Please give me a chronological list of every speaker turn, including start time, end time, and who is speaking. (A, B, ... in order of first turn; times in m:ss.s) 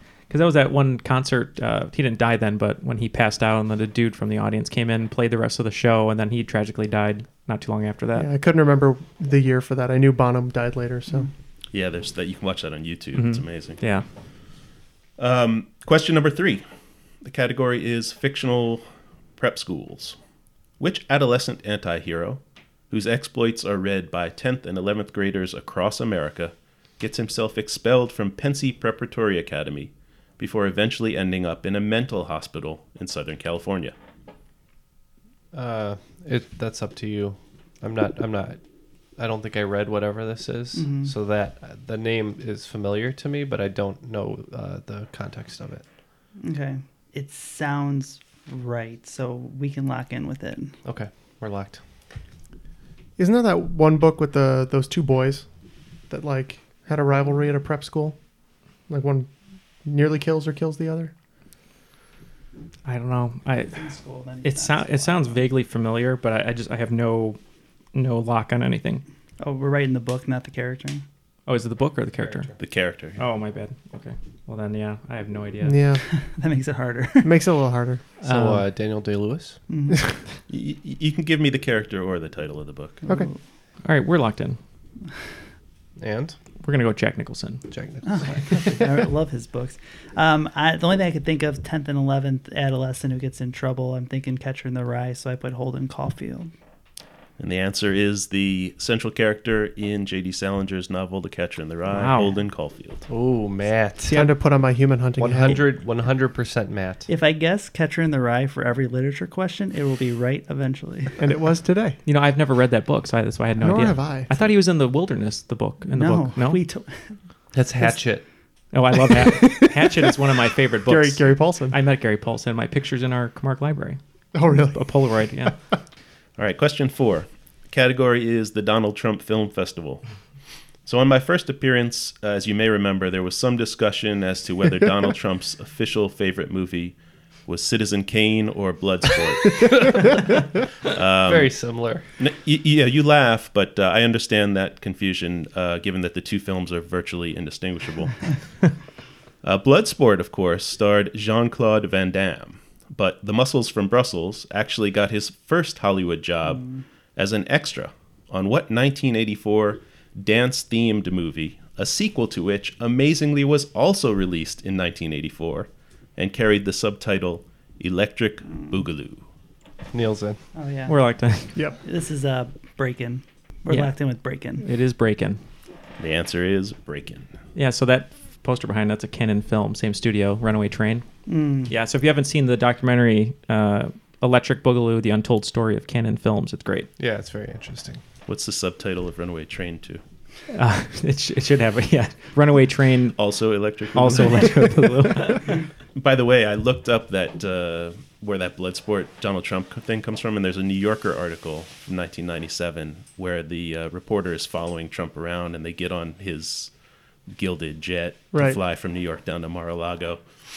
0:00.3-0:08.3 A
0:08.1-0:11.3 B
0:11.7-0:13.8 C
0:13.1-0:14.0 A
0:15.2-0:16.6 C
0:17.2-0:18.8 C
0:19.4-0:20.2 C
0:20.8-0:33.9 C
0:35.5-0:38.6 D
0:39.2-0:45.8 D
0:40.7-0:41.1 E
0:46.4-0:50.8 E
0:50.8-0:51.8 D
0:53.2-0:55.5 B
0:56.1-0:58.2 B
0:58.9-0:59.3 B
0:59.8-1:01.1 B
1:02.8-1:03.9 A
1:03.7-1:05.4 E
1:04.4-1:07.4 A
1:07.9-1:09.0 A
1:09.4-1:11.0 E
1:11.5-1:12.5 A
1:12.2-1:12.6 D
1:12.6-1:13.2 C
1:13.2-1:15.8 A
1:15.6-1:16.0 B
1:16.0-1:17.4 E
1:17.2-1:18.0 B
1:18.2-1:19.6 D
1:18.2-1:18.6 A
1:19.7-1:20.1 E
1:20.5-1:23.0 C
1:23.0-1:23.4 E
1:23.8-1:24.6 A
1:26.0-1:26.4 D
1:26.6-1:27.6 A
1:27.7-1:28.8 D
1:28.0-1:36.5 E
1:37.4-1:43.0 C
1:41.9-1:42.4 A
1:43.1-1:44.3 D
1:44.1-1:45.6 B
1:45.2-1:47.1 D
1:47.1-1:51.1 E
1:51.2-1:52.0 B
1:52.0-1:56.6 A
1:53.6-1:54.4 B
1:55.8-1:57.2 E
1:57.5-1:58.2 D
1:58.7-2:05.6 A
1:59.2-2:00.1 B
2:00.8-2:01.8 B
2:04.3-2:05.5 B
2:06.4-2:10.0 C
2:10.8-2:16.9 C
2:17.5-2:20.2 C
2:20.9-2:21.6 C
2:21.2-2:22.0 D
2:22.2-2:28.3 C
2:29.4-2:49.2 C
2:36.5-2:36.8 E
2:49.9-2:50.4 D
2:50.5-2:51.0 E
2:50.9-2:51.5 A
2:51.8-2:54.6 E
2:53.7-2:53.9 A
2:54.6-2:55.4 A
2:56.0-2:57.3 C
2:57.5-3:01.1 A
3:01.3-3:01.7 E
3:01.7-3:06.9 A
3:07.0-3:08.0 D
3:08.3-3:10.0 C
3:10.5-3:13.2 A
3:13.2-3:15.1 C
3:13.9-3:15.5 A
3:15.9-3:26.7 C
3:27.3-3:30.2 C
3:28.3-3:28.6 B